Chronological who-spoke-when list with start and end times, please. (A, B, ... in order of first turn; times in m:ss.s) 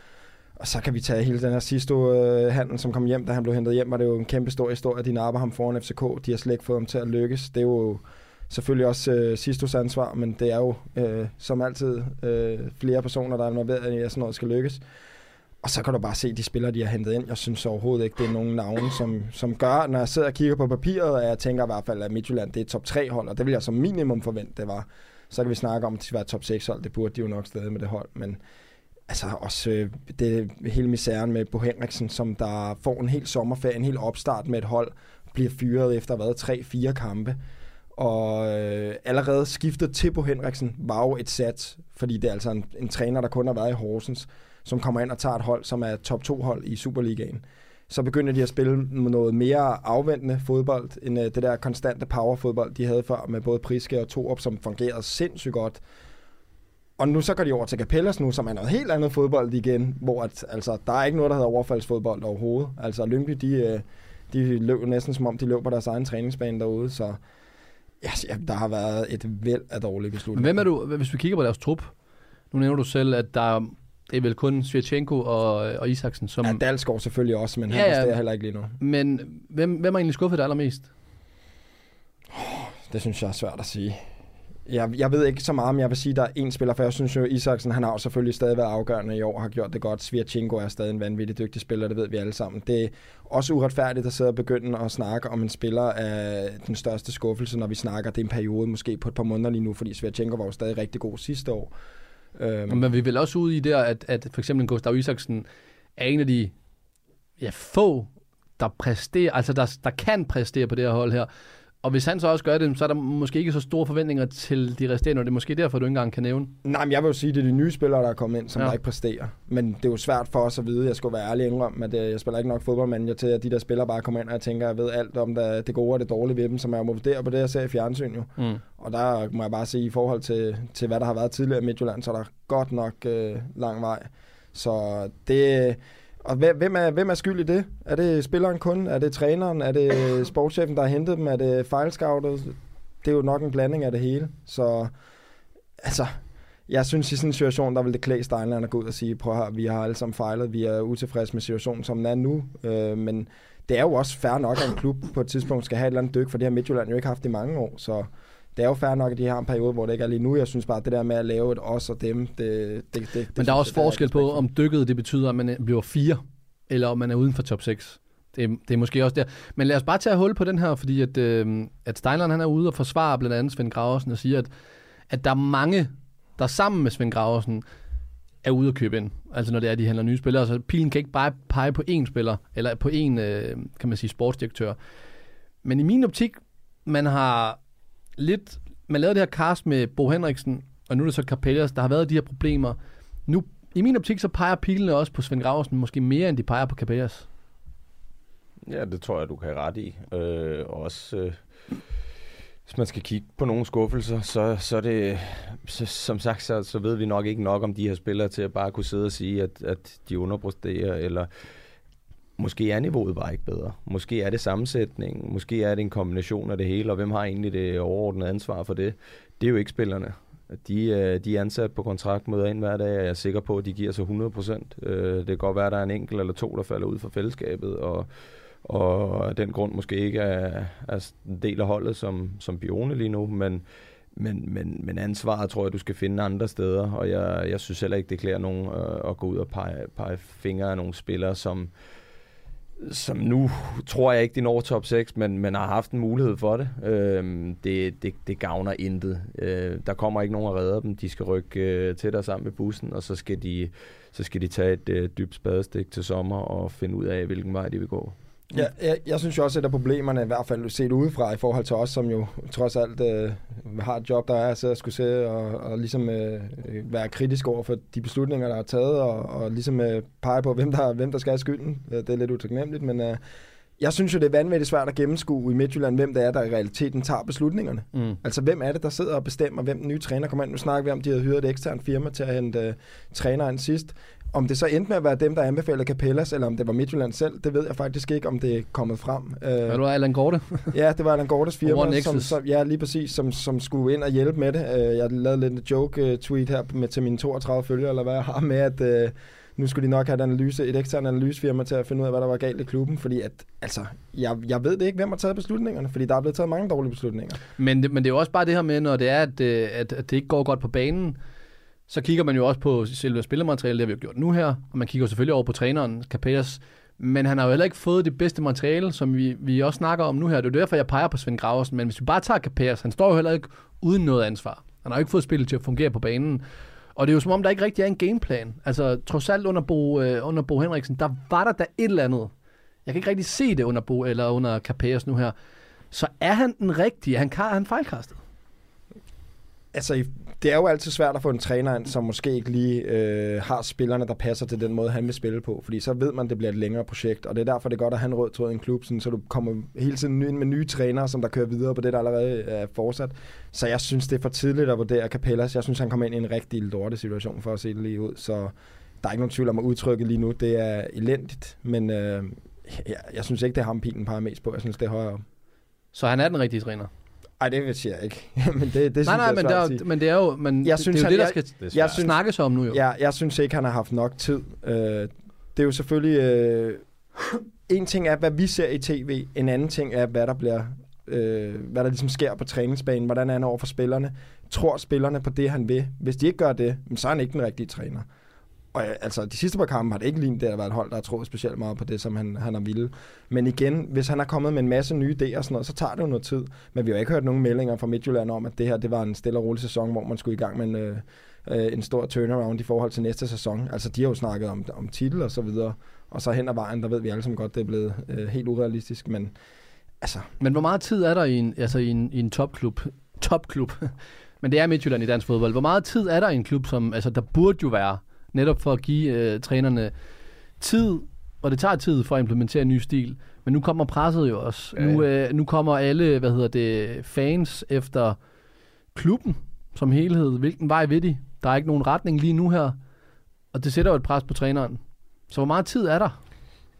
0:00.6-0:14.8 A
0:15.6-0:28.4 A
0:29.1-0:37.4 A
0:38.0-0:55.8 A
0:57.0-1:07.2 A
1:08.0-1:10.6 A
1:10.3-1:11.9 B
1:12.5-1:16.6 B
1:16.4-1:18.7 A
1:17.7-1:18.2 B
1:18.8-1:20.9 B
1:22.3-1:24.1 A
1:24.6-1:41.7 A
1:42.3-1:42.9 A
1:42.7-1:45.4 B
1:46.0-1:46.5 B
1:47.4-1:51.3 B
1:51.8-1:56.5 B
1:56.6-2:24.9 A
2:25.8-2:44.4 A
2:43.4-2:54.5 B
2:55.1-2:57.6 B
2:58.4-3:04.8 B
3:05.6-3:07.6 B
3:08.2-3:17.3 B
3:18.6-3:21.4 C
3:22.6-3:31.3 C
3:32.4-3:48.1 C
3:48.6-3:53.6 C
3:54.1-4:01.7 C
4:02.8-4:18.1 C
4:18.5-4:33.2 A
4:33.8-4:49.8 A
4:49.7-4:50.7 B
4:50.7-5:07.4 A
4:51.6-4:52.4 B
5:07.6-5:11.2 B
5:11.9-5:26.4 B
5:27.0-5:32.3 B
5:32.8-5:35.3 B
5:35.9-5:38.2 B
5:39.7-6:05.2 A
6:05.9-6:06.9 B
6:07.4-6:09.8 A
6:09.0-6:12.8 B
6:10.6-6:12.2 A
6:11.6-6:12.0 C
6:12.7-6:16.9 A
6:17.7-6:28.0 A
6:28.7-6:49.3 A
6:50.0-6:50.3 A
6:50.4-6:59.9 B
7:00.6-7:08.2 B
7:04.8-7:05.0 C
7:08.9-7:12.8 B
7:13.5-7:16.2 B